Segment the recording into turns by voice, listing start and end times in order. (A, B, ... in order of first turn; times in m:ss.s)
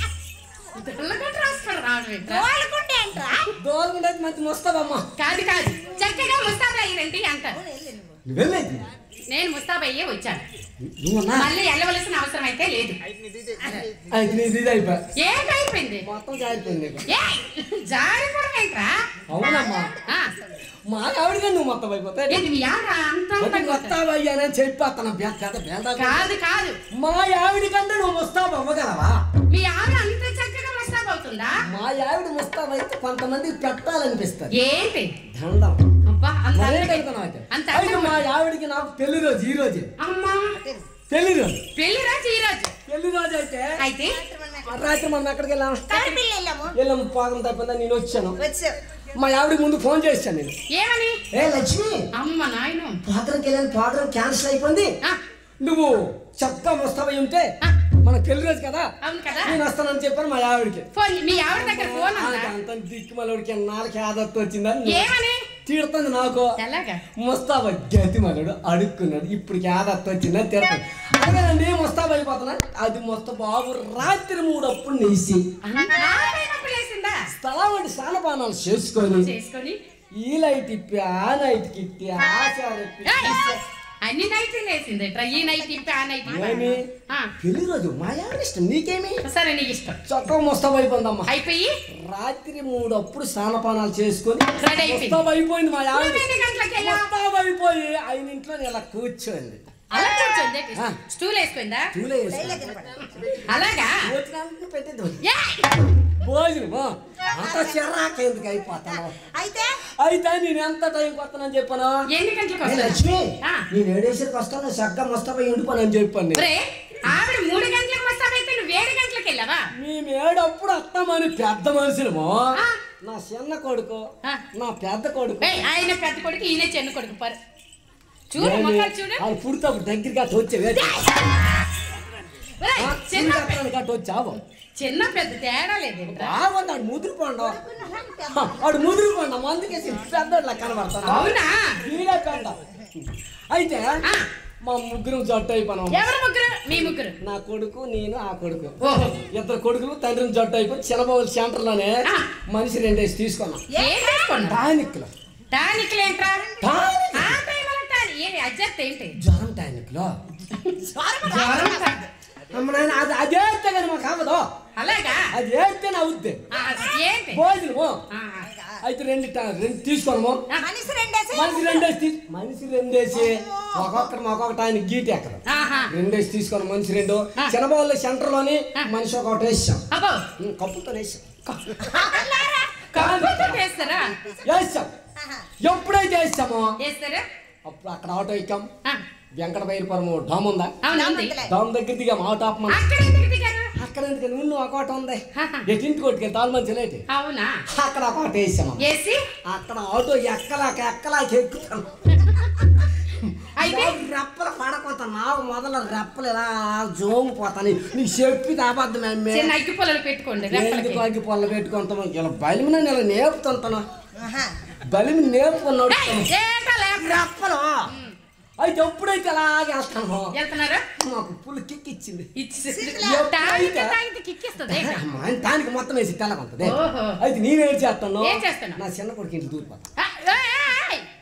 0:00.7-0:02.5 A
0:02.2-0:03.5 B
0:03.6-0:05.1 C
0:05.2-0:07.6 A
0:07.8-0:08.1 B
0:08.2-0:08.8 C
0:09.3-0:10.4 A
0:10.8-0:11.5 C
0:11.3-0:13.0 A
0:13.6-0:13.9 A
0:14.1-0:15.0 C
0:15.2-0:16.0 A
0:16.0-0:17.1 C
0:17.1-0:19.0 A
0:19.3-0:19.9 C
0:20.0-0:20.3 A
0:20.9-0:22.4 C
0:22.3-0:24.0 A
0:23.4-0:26.4 C
0:26.0-0:26.8 A
0:26.9-0:29.1 C
0:29.5-0:31.6 A
0:31.6-0:34.5 C
0:34.5-0:35.1 A
0:35.3-0:35.8 C
0:36.0-0:38.2 A
0:36.5-0:39.9 C
0:40.0-0:40.6 A
0:40.6-0:40.8 B
0:41.1-0:41.6 C
0:41.7-0:42.7 A
0:42.9-0:43.8 C
0:43.8-0:44.2 A
0:44.2-0:44.9 B
0:44.6-0:45.9 C
0:45.9-0:46.7 B
0:45.9-0:46.2 A
0:46.7-0:48.4 C
0:48.4-0:48.8 B
0:49.2-0:50.5 C
0:50.7-0:51.2 A
0:51.3-0:52.1 C
0:52.1-0:53.0 A
0:53.0-0:54.9 C
0:55.6-0:57.5 C
0:58.0-1:00.9 C
0:59.0-0:59.6 A
1:00.9-1:02.5 A
1:01.4-1:05.1 C
1:04.8-1:05.4 A
1:05.6-1:06.5 C
1:06.6-1:07.0 A
1:07.2-1:15.4 C
1:15.6-1:17.2 A
1:17.3-1:19.3 C
1:19.0-1:19.8 A
1:20.2-1:23.6 C
1:23.0-1:23.5 A
1:24.0-1:27.3 A
1:25.3-1:26.8 B
1:26.2-1:26.8 C
1:27.4-1:29.2 C
1:29.2-1:30.0 A
1:30.1-1:31.3 C
1:31.3-1:31.7 A
1:31.9-1:39.6 C
1:34.6-1:35.2 A
1:35.9-1:37.1 A
1:39.9-1:41.9 A
1:41.9-1:43.4 C
1:42.3-1:43.1 B
1:43.4-1:44.0 A
1:44.0-1:45.2 C
1:45.2-1:45.8 A
1:46.2-1:49.2 C
1:47.4-1:47.8 B
1:49.1-1:49.8 B
1:50.0-1:51.9 C
1:52.1-1:53.6 A
1:52.6-1:56.4 C
1:56.3-1:59.7 A
1:59.7-2:05.7 C
2:05.4-2:07.4 A
2:08.3-2:09.2 A
2:08.4-2:11.0 C
2:10.7-2:11.3 A
2:12.6-2:13.6 A
2:12.8-2:14.4 C
2:14.8-2:16.4 A
2:16.1-2:17.6 C
2:17.5-2:18.4 B
2:18.3-2:24.0 C
2:21.0-2:21.8 A
2:24.6-2:26.0 C
2:25.9-2:27.1 A
2:26.7-2:28.8 C
2:28.8-2:29.2 A
2:29.3-2:32.0 C
2:32.5-2:33.6 C
2:33.7-2:34.4 B
2:33.8-2:34.6 A
2:34.4-2:35.1 C
2:35.5-2:36.5 A
2:36.6-2:37.4 C
2:37.1-2:39.2 A
2:39.2-2:40.1 C
2:40.6-2:42.1 A
2:40.9-2:42.0 B
2:42.5-2:44.4 C
2:44.8-2:45.3 A
2:45.3-2:46.4 C
2:46.5-2:47.4 A
2:46.6-2:46.9 B
2:47.3-2:48.0 C
2:48.1-2:48.5 A
2:48.8-2:50.4 C
2:50.6-2:51.8 B
2:51.3-2:59.8 C
2:53.1-2:54.1 B
2:55.5-2:55.9 A
2:59.9-3:00.2 A
3:00.4-3:01.5 C
3:01.8-3:02.8 B
3:02.9-3:04.1 A
3:02.9-3:03.6 C
3:03.8-3:04.4 B
3:04.4-3:04.9 C
3:05.6-3:06.7 C
3:06.8-3:07.2 A
3:07.6-3:08.7 C
3:09.4-3:10.7 C
3:10.8-3:11.4 A
3:10.9-3:11.5 B
3:11.4-3:12.8 C
3:12.7-3:13.7 A
3:13.7-3:17.0 C
3:15.4-3:15.6 A
3:17.1-3:17.6 A
3:17.7-3:18.8 C
3:18.8-3:19.2 A
3:19.5-3:29.5 C
3:23.6-3:23.9 A
3:29.3-3:31.0 A
3:30.5-3:33.8 C
3:34.2-3:34.5 B
3:34.8-3:36.3 C
3:35.9-3:37.2 A
3:37.0-3:37.9 C
3:37.9-3:38.2 A
3:38.6-3:40.3 C
3:40.3-3:40.8 A
3:41.0-3:42.3 C
3:42.4-3:45.0 A
3:42.7-3:43.2 B
3:43.0-3:44.0 C
3:44.7-3:49.9 C
3:46.6-3:47.2 A
3:48.2-3:48.8 A
3:50.0-3:51.0 A